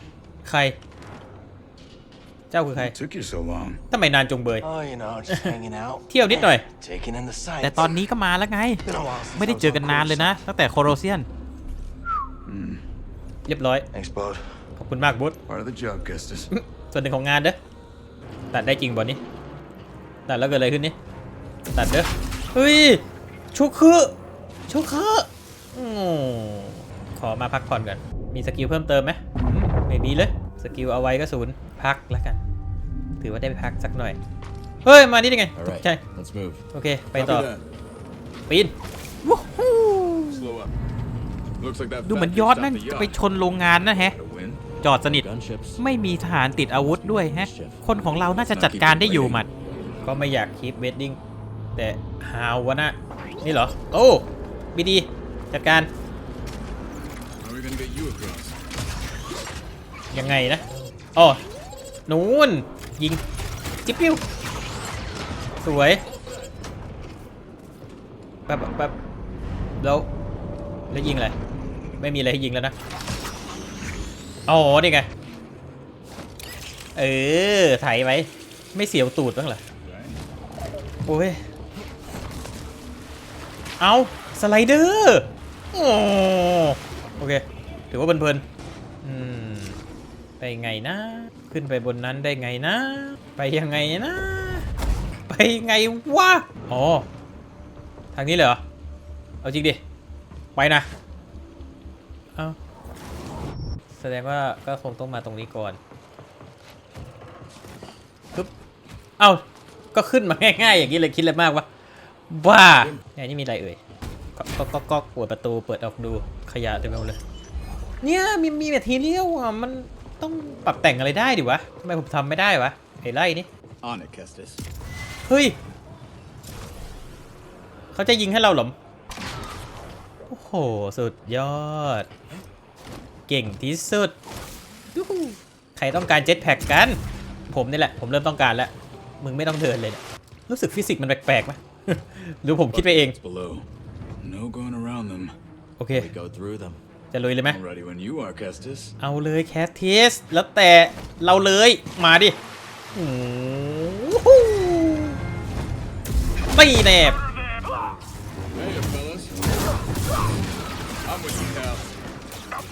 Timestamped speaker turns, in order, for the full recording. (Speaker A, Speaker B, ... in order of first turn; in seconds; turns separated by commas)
Speaker A: 0.4-0.8, Speaker A: 2.5-3.0, Speaker B: 2.8-3.8, Speaker A: 3.9-4.7, Speaker C: 4.6-8.1, Speaker A: 5.3-5.6, Speaker A: 6.1-6.7, Speaker A: 7.6-8.8, Speaker C: 8.9-10.2, Speaker D: 9.3-10.3, Speaker A: 9.3-11.3, Speaker B: 12.5-12.8, Speaker A: 13.5-13.9, Speaker C: 13.9-14.6, Speaker A: 14.8-15.4, Speaker B: 15.5-16.5, Speaker A: 16.5-17.6, Speaker A: 18.5-19.2, Speaker A: 20.3-21.0, Speaker A: 21.7-23.0, Speaker A: 23.5-24.1, Speaker A: 24.7-32.4, Speaker A: 33.2-34.2, Speaker A: 34.9-36.0, Speaker D: 35.5-36.6, Speaker A: 36.7-37.5, Speaker B: 37.1-37.6, Speaker A: 38.5-38.7, Speaker A: 39.2-40.5, Speaker B: 40.3-40.7, Speaker B: 41.6-44.6, Speaker A: 42.0-44.2, Speaker A: 44.8-45.2, Speaker D: 45.1-45.8, Speaker A: 45.8-49.5, Speaker D: 46.7-47.8, Speaker B: 48.1-50.0, Speaker A: 50.0-51.2, Speaker A: 51.8-55.9, Speaker B: 57.4-58.6, Speaker A: 60.1-60.6, Speaker A: 61.1-61.4, Speaker A: 62.1-63.2, Speaker A: 63.9-64.2, Speaker A: 65.6-66.0, Speaker A: 68.5-68.9, Speaker A: 69.8-70.1, Speaker A: 70.9-71.3, Speaker A: 72.0-72.7, Speaker A: 74.5-75.1, Speaker A: 77.0-79.6, Speaker B: 79.8-80.2, Speaker A: 81.1-81.4, Speaker A: 83.8-88.4, Speaker A: 89.0-89.8, Speaker A: 90.4-94.7, Speaker A: 95.3-97.1, Speaker A: 98.1-98.6, Speaker A: 99.4-99.8, Speaker A: 100.6-100.9, Speaker A: 103.9-105.8, Speaker A: 109.9-111.7, Speaker A: 112.3-113.8, Speaker A: 114.4-117.2, Speaker A: 118.0-123.5, Speaker B: 123.8-124.6, Speaker A: 125.2-125.6, Speaker A: 127.9-128.8, Speaker A: 130.3-132.1, Speaker A: 133.3-134.2, Speaker A: 134.9-137.0, Speaker A: 137.5-143.2, Speaker B: 142.7-143.7, Speaker B: 144.2-145.3, Speaker A: 145.8-146.1, Speaker D: 145.9-146.8, Speaker A: 147.1-147.6, Speaker B: 147.4-148.9, Speaker A: 149.0-152.4, Speaker A: 152.9-155.2, Speaker A: 156.5-157.2, Speaker B: 158.5-159.3, Speaker B: 161.0-161.9